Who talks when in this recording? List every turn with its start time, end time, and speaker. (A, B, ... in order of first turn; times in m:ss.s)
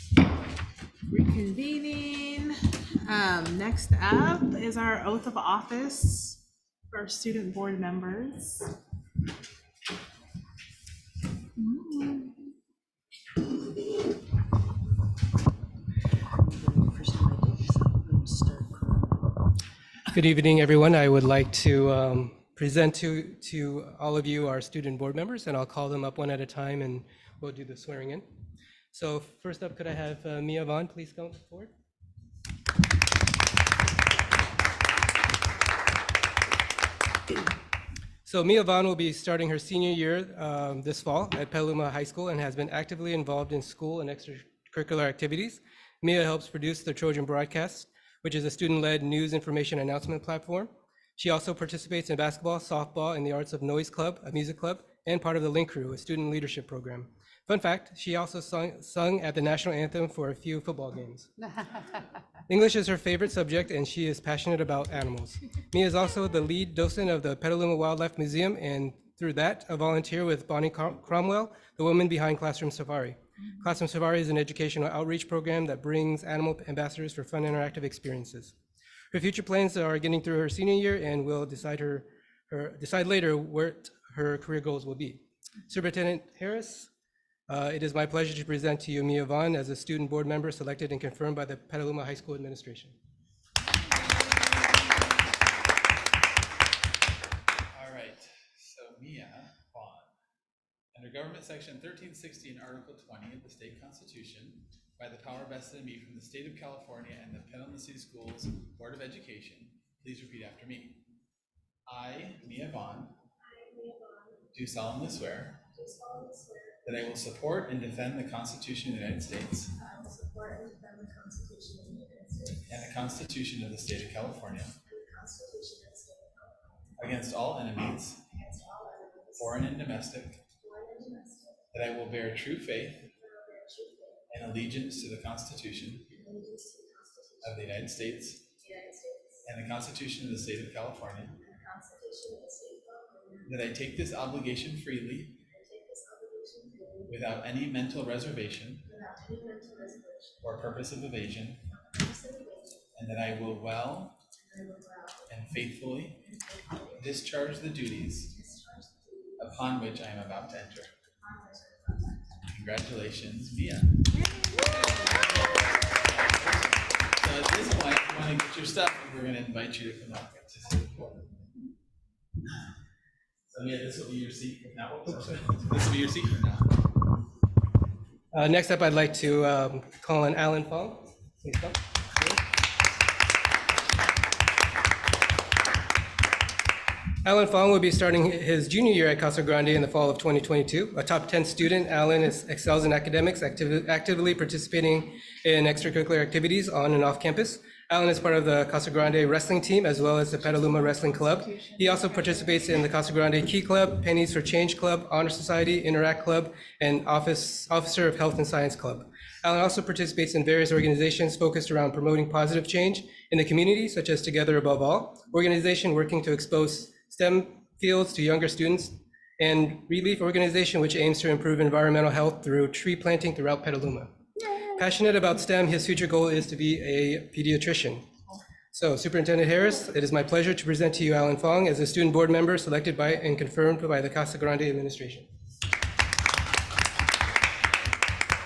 0:01.1-0:06.4 A
0:06.9-0:08.7 A
0:11.6-0:12.3 A
0:16.4-0:19.3 B
0:20.1-0:28.2 C
0:28.9-0:31.7 C
0:38.2-1:01.3 C
1:02.5-1:18.5 C
1:19.1-1:26.9 C
1:27.5-1:33.0 C
1:37.7-1:40.1 D
1:40.9-1:51.0 D
1:51.9-1:53.2 D
1:53.4-1:54.5 E
1:54.5-1:55.6 D
1:55.7-1:56.8 E
1:56.8-1:59.7 D
1:59.8-2:02.7 E
2:02.7-2:04.7 D
2:04.8-2:06.9 E
2:07.0-2:08.2 D
2:08.3-2:09.6 E
2:09.4-2:10.4 D
2:10.6-2:11.7 E
2:11.7-2:13.0 D
2:13.1-2:14.3 E
2:14.3-2:16.1 D
2:16.1-2:17.6 E
2:17.4-2:18.4 D
2:18.6-2:19.4 E
2:19.4-2:21.4 D
2:21.4-2:23.6 E
2:23.4-2:25.4 D
2:25.4-2:27.1 E
2:27.1-2:28.8 D
2:28.8-2:30.5 E
2:30.4-2:31.6 D
2:31.7-2:32.8 E
2:32.9-2:34.2 D
2:34.4-2:35.2 E
2:35.3-2:36.2 D
2:36.3-2:37.1 E
2:37.0-2:38.3 D
2:38.3-2:39.4 E
2:39.4-2:40.9 D
2:41.2-2:42.4 E
2:42.5-2:44.1 D
2:44.5-2:45.1 A
2:45.0-2:51.3 D
2:53.5-2:56.8 D
2:58.3-3:02.4 C
3:07.2-3:48.0 C
3:48.7-3:55.3 C
3:57.6-3:57.9 D